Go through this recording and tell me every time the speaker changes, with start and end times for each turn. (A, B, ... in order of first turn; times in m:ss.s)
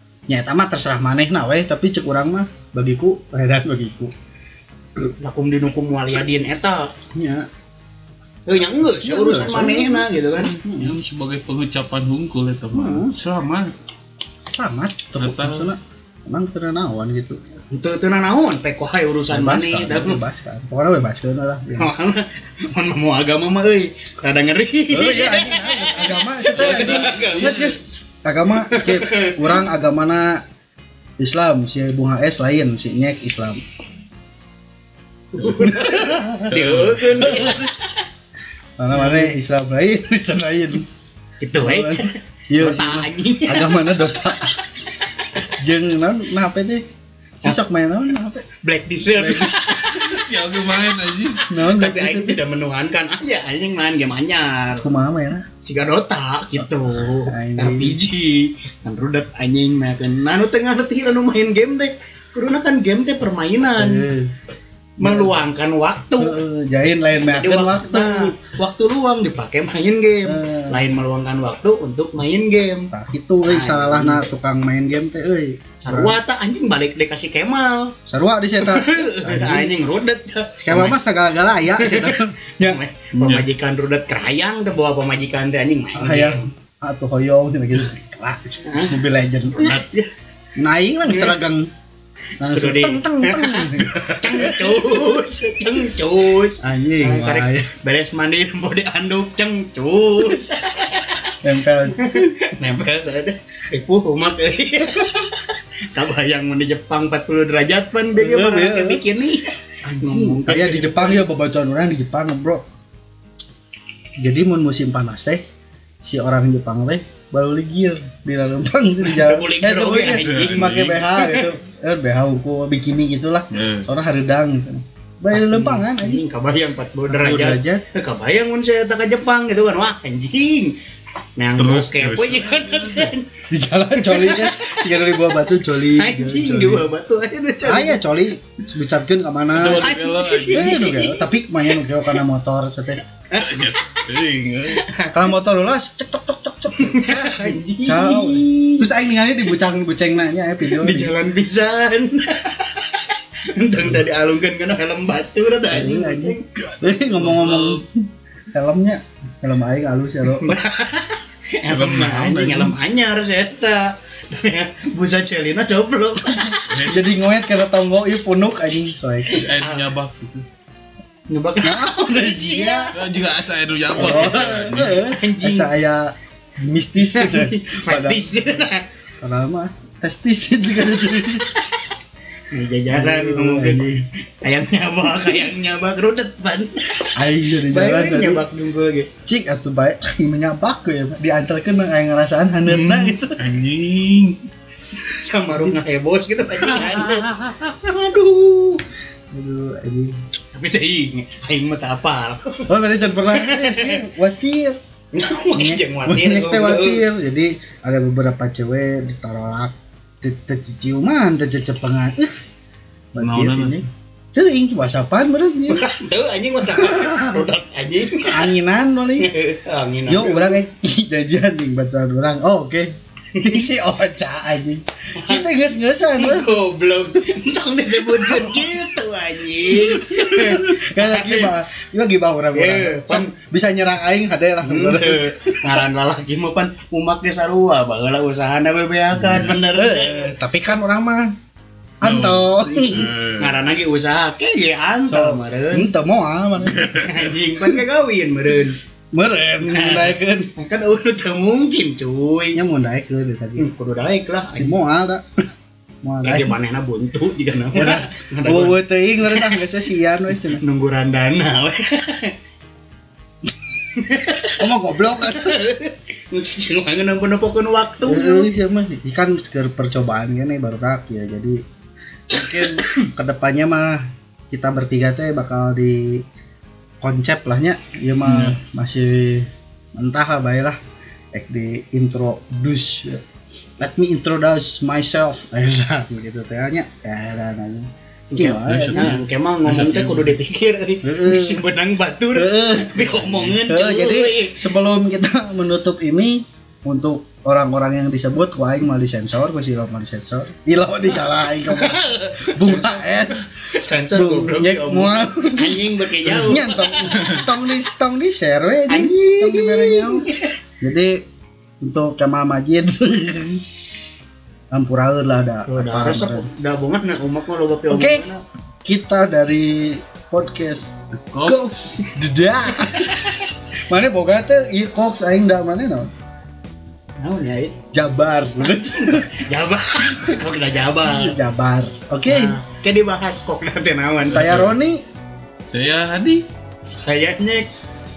0:00.3-0:04.1 A
0:05.2-0:06.9 B
0:07.2-0:07.4 A
0:08.5-0:10.6 B
0:08.8-0:11.0 A
0:10.6-0:13.7 C
0:12.7-0:13.1 A
0:14.4-0:17.4 A
0:15.2-0:15.7 C
0:17.7-0:20.2 B
0:19.3-0:21.9 A
0:21.8-0:27.6 B
0:24.9-0:30.4 A
0:26.6-0:27.8 C
0:28.6-0:29.7 B
0:31.2-0:33.6 A
0:35.4-0:37.7 B
0:35.4-0:35.7 C
0:35.6-0:36.5 A
0:36.2-0:37.1 C
0:37.2-0:37.6 A
0:38.8-0:40.8 A
0:38.9-0:39.3 C
0:41.4-0:43.8 B
0:41.6-0:44.5 A
0:45.6-0:46.8 A
0:47.4-0:48.4 A
0:48.6-0:50.0 B
0:49.2-0:49.5 A
0:49.7-0:51.4 C
0:51.5-0:52.4 A
0:51.6-0:54.9 B
0:54.8-0:55.4 A
0:55.6-1:04.1 B
0:57.3-0:58.0 A
1:03.7-1:04.3 A
1:05.0-1:06.4 B
1:05.0-1:05.4 A
1:06.2-1:08.3 A
1:07.2-1:12.9 B
1:10.2-1:10.8 A
1:12.9-1:16.2 A
1:13.4-1:14.3 B
1:15.8-1:18.0 B
1:18.1-1:19.8 A
1:18.6-1:21.0 B
1:20.6-1:22.8 A
1:21.8-1:26.5 B
1:23.2-1:23.4 C
1:26.0-1:29.8 A
1:28.7-1:29.0 B
1:29.5-1:30.1 B
1:30.6-1:31.7 A
1:31.1-1:31.4 B
1:32.4-1:35.0 A
1:32.4-1:41.3 B
1:36.6-1:37.7 A
1:41.4-1:42.2 A
1:42.0-1:51.2 B
1:48.2-1:49.0 A
1:49.8-1:52.6 A
1:54.2-1:55.4 A
1:56.0-2:06.2 A
1:59.0-2:01.5 B
2:00.2-2:01.0 C
2:03.5-2:03.9 C
2:05.3-2:10.7 B
2:07.1-2:07.8 A
2:11.4-2:13.4 B
2:11.6-2:13.1 C
2:13.5-2:16.9 A
2:14.0-2:14.9 B
2:15.8-2:18.0 B
2:17.6-2:19.9 A
2:19.5-2:20.8 C
2:19.6-2:21.8 B
2:20.5-2:23.0 A
2:23.3-2:23.9 B
2:23.4-2:24.8 C
2:24.7-2:25.2 B
2:25.1-2:31.1 A
2:26.8-2:28.9 B
2:30.7-2:36.4 B
2:35.7-2:40.6 A
2:36.7-2:37.8 C
2:40.4-2:46.9 B
2:41.7-2:42.8 C
2:46.7-2:47.0 C
2:46.9-2:49.5 A
2:49.3-2:50.4 C
2:49.6-2:49.9 B
2:51.3-2:52.9 B
2:51.6-2:52.9 A
2:52.9-2:55.0 C
2:53.9-2:58.6 A
2:54.0-2:55.7 B
2:57.0-2:58.9 B
2:59.2-3:01.5 A
3:02.5-3:03.9 B
3:02.9-3:04.0 A
3:04.4-3:09.1 B
3:07.2-3:08.4 A
3:09.3-3:13.4 A
3:12.7-3:14.2 C
3:13.6-3:14.3 B
3:15.1-3:18.8 B
3:15.5-3:15.8 A
3:16.6-3:17.4 A
3:19.3-3:20.1 A
3:20.5-3:22.7 B
3:22.7-3:24.8 A
3:23.3-3:24.0 B
3:25.1-3:27.0 B
3:25.5-3:32.3 A
3:33.1-3:35.8 A
3:33.2-3:33.8 C
3:35.7-3:38.5 B
3:36.7-3:37.4 A
3:38.3-3:39.3 A
3:39.2-3:40.6 B
3:40.1-3:46.5 A
3:45.2-3:45.5 B
3:46.2-3:51.6 B
3:48.0-3:48.8 A
3:49.7-3:55.8 A
3:52.5-3:53.3 B
3:54.6-4:00.4 B
3:59.2-3:59.5 C
3:59.7-4:01.3 A
4:02.0-4:03.1 A
4:02.0-4:03.7 C
4:02.7-4:05.9 B
4:05.1-4:06.9 A
4:06.7-4:07.3 C
4:07.0-4:08.8 B
4:09.1-4:10.5 A
4:09.6-4:12.6 B
4:12.6-4:13.7 A
4:13.6-4:14.8 B
4:14.6-4:15.3 A
4:16.0-4:16.6 A
4:16.2-4:19.6 B
4:17.7-4:20.6 A
4:20.5-4:22.3 B
4:24.0-4:24.6 B
4:24.6-4:25.6 A
4:25.2-4:28.5 B
4:28.1-4:31.6 A
4:32.3-4:34.0 A
4:32.3-4:32.9 B
4:34.5-4:36.2 A
4:37.0-4:40.8 A
4:38.2-4:38.6 C
4:41.3-4:43.2 A
4:43.8-4:49.2 A
4:48.3-4:54.7 B
4:48.4-4:50.4 C
4:51.0-4:51.6 A
4:52.4-5:03.5 A
4:53.2-4:53.5 C
5:01.7-5:03.1 B
5:03.7-5:07.4 B
5:04.1-5:10.3 A
5:08.9-5:10.5 B
5:10.8-5:11.2 A
5:11.8-5:13.6 A
5:14.7-5:16.5 A
5:15.7-5:18.4 B
5:17.9-5:18.3 A
5:18.8-5:23.1 A
5:21.3-5:21.7 C
5:23.9-5:26.1 A
5:27.2-5:27.8 B
5:27.9-5:29.3 A
5:28.6-5:31.4 B
5:31.0-5:32.5 A
5:32.3-5:34.5 B
5:34.2-5:34.8 C
5:34.2-5:35.0 A
5:35.6-5:36.5 C
5:36.8-5:37.7 B